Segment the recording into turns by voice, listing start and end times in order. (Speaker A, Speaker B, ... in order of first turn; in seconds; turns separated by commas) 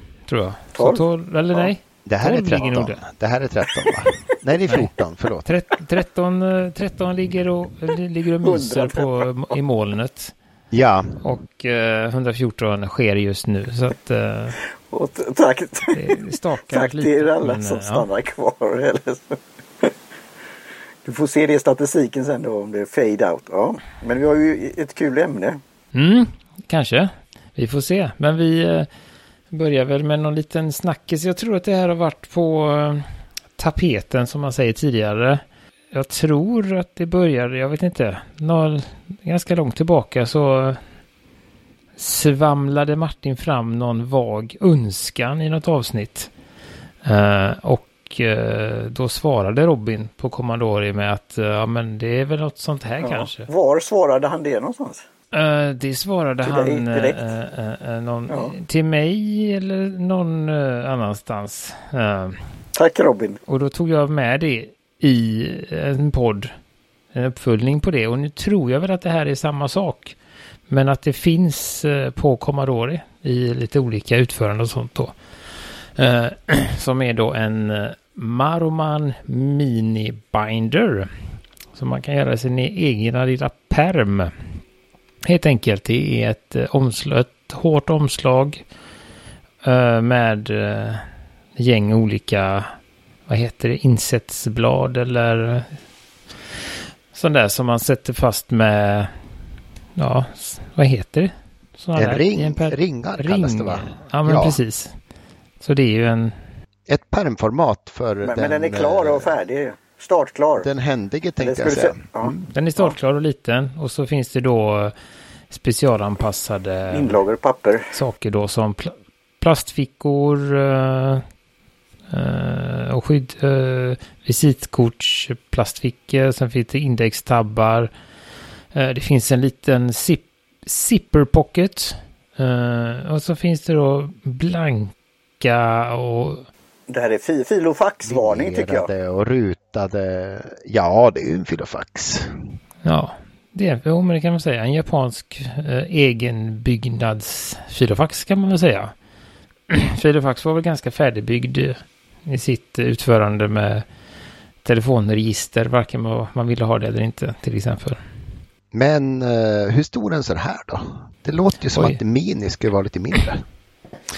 Speaker A: 0.3-3.0, Speaker B: 0.7-1.7, Speaker C: 2.0-5.5, Speaker A: 5.4-10.3, Speaker B: 8.4-9.5, Speaker C: 10.7-11.2, Speaker A: 11.2-14.6, Speaker B: 14.8-19.9, Speaker A: 15.9-18.1, Speaker B: 21.0-25.6, Speaker A: 25.9-28.9, Speaker A: 29.5-40.8, Speaker A: 42.0-46.3, Speaker A: 47.0-53.5, Speaker B: 53.0-55.0, Speaker A: 55.3-62.4, Speaker B: 56.4-57.3, Speaker B: 58.3-58.5, Speaker B: 62.7-63.4, Speaker A: 63.5-66.5, Speaker A: 67.1-70.2, Speaker A: 70.7-75.1, Speaker A: 76.0-81.1, Speaker A: 81.7-84.3, Speaker A: 85.2-88.6, Speaker A: 89.6-92.7, Speaker A: 93.3-95.8, Speaker A: 97.1-99.1, Speaker A: 100.0-104.9, Speaker C: 102.0-104.6, Speaker A: 105.6-106.3, Speaker C: 106.9-109.3, Speaker B: 108.2-110.7, Speaker C: 110.6-112.4, Speaker B: 111.4-112.9, Speaker A: 112.5-114.9, Speaker A: 115.5-117.2, Speaker B: 116.9-117.9, Speaker A: 117.9-121.2, Speaker A: 122.1-127.9, Speaker A: 128.7-136.4, Speaker B: 136.9-138.9, Speaker C: 138.1-142.3, Speaker A: 142.8-148.9, Speaker A: 149.7-153.8, Speaker A: 154.6-158.0, Speaker C: 158.7-163.4, Speaker A: 161.7-162.0